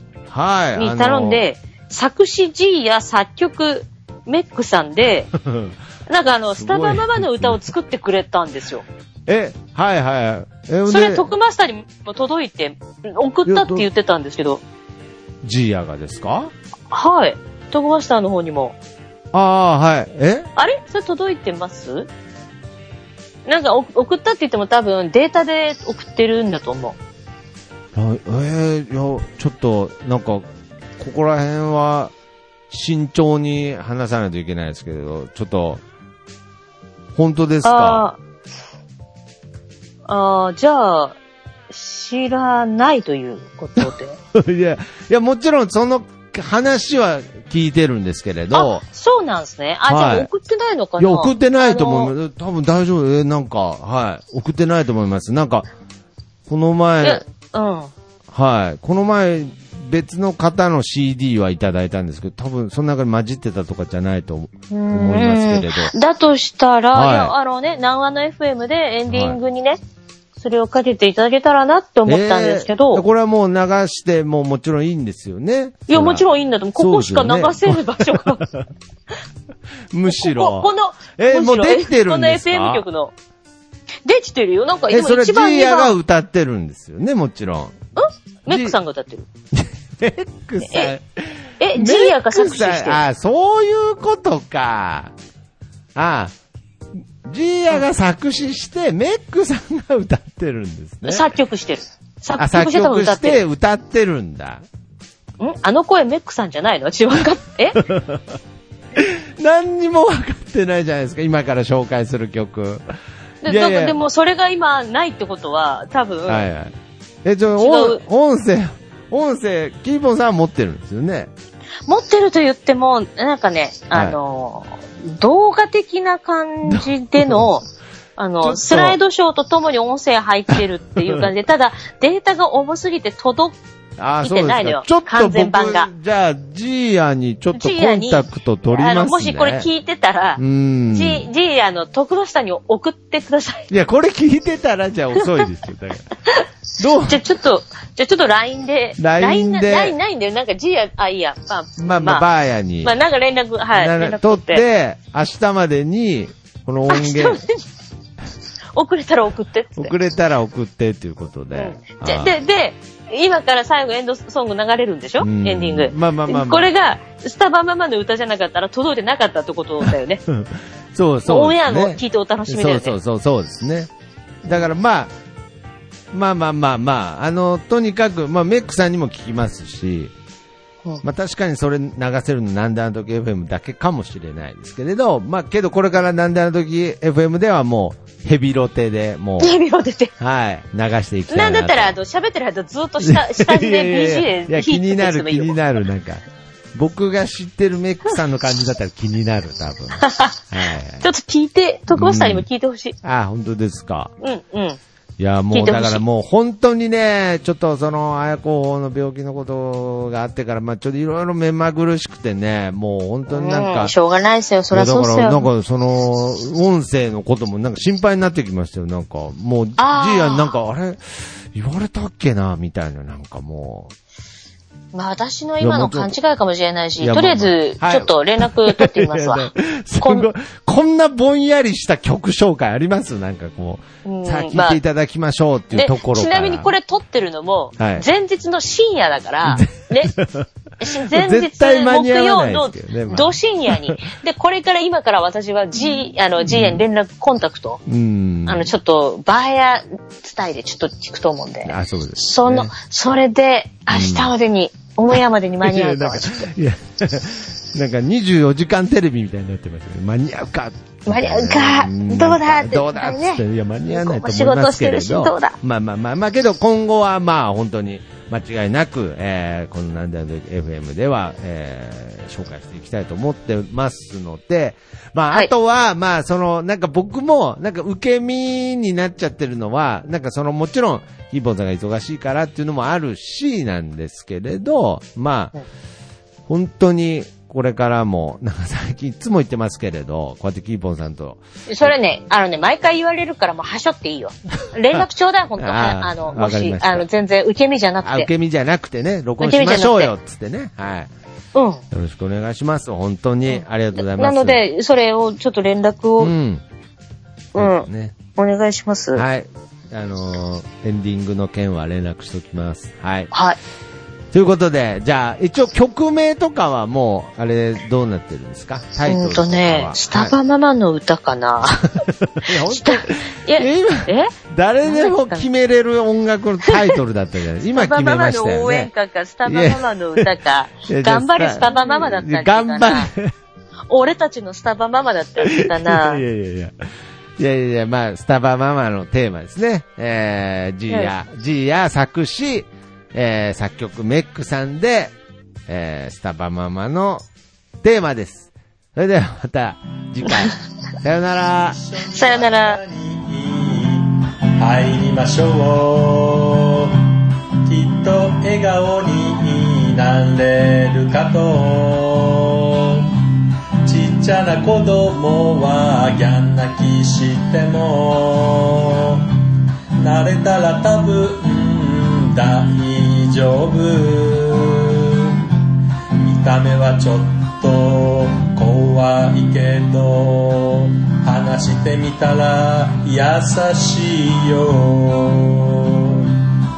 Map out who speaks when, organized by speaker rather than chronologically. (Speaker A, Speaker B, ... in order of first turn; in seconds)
Speaker A: 0.3-1.4, 5.3-5.8, 6.5-7.6, 9.3-11.3, 13.4-13.9, 15.4-16.5, 19.3-20.5, 27.9-30.4, 31.0-32.1, 32.7-35.8, 37.1-38.0, 43.8-48.8, 49.9-50.3, 51.0-55.7, 56.5-57.2, 58.3-65.9, 66.9-67.3, 69.1-69.4, 72.1-78.6, 79.9-82.8, 84.9-87.7, 88.5-88.8, 89.5-95.1, 95.9-96.3, 97.2-101.3, 102.4-104.6, 107.1-108.4, 108.9-112.9, 113.4-114.0, 116.3-121.3, 123.9-124.2, 126.7-127.5, 128.4-129.0, 130.6-131.3, 134.0-139.7, 140.4-141.3, 143.7-146.0, 146.8-147.2, 149.0-150.0, 151.8-152.9, 153.7-157.4, 159.8-162.3, 165.2-166.7, 169.8-173.9, 174.4-175.1, 176.1-180.1, 181.0-189.6, 190.2-191.9, 193.0-201.0, 201.9-202.5, 203.0-204.1, 205.2-213.9, 214.7-223.9, 225.6-226.2, 227.0-236.7, 237.8-238.1, 239.4-244.0, 246.4-246.8, 247.9-248.7, 251.6-252.7, 253.9-254.3, 255.1-285.5, 286.5-291.9, 295.6-297.1, 298.0-301.1, 301.9-304.6, 306.2-306.6, 307.5-308.2, 309.1-313.3, 314.3-320.4, 322.0-328.9, 329.4-330.3, 330.9-333.3, 335.4-336.8, 337.4-345.1, 345.7-347.2, 347.8-351.8
Speaker B: 0.7-5.3, 6.1-8.8, 10.8-14.6, 16.9-18.8, 20.6-22.1, 23.4-27.0, 37.6-38.2, 40.1-41.2, 41.7-44.2, 48.5-52.1, 57.0-57.9, 64.7-69.8, 70.4-73.0, 75.9-78.4, 80.1-83.1, 84.0-85.9, 88.0-89.3, 90.6-90.9, 91.6-93.0, 101.0-103.4, 105.4-107.8, 113.4-116.5, 117.6-118.0, 121.9-133.6, 134.2-135.9, 137.5-143.7, 147.0-152.2, 152.8-154.6, 156.9-157.6, 158.7-159.9, 161.5-170.2, 171.2-172.9, 189.4-190.1, 191.3-195.6, 200.0-200.4, 201.0-202.9, 204.2-204.8, 205.5-206.0, 213.3-215.5, 219.8-220.5, 224.9-230.3, 234.0-234.8, 235.7-240.1, 240.8-247.8, 248.4-256.5, 261.1-265.6, 291.7-298.3, 299.4-300.1, 301.5-301.8, 303.5-306.3, 307.5-309.2, 313.3-313.6, 319.1-325.5, 326.6-326.9, 327.7-333.1, 333.9-336.2, 352.1-352.8
Speaker C: 351.5-363.2, 363.8-375.5, 376.1-386.5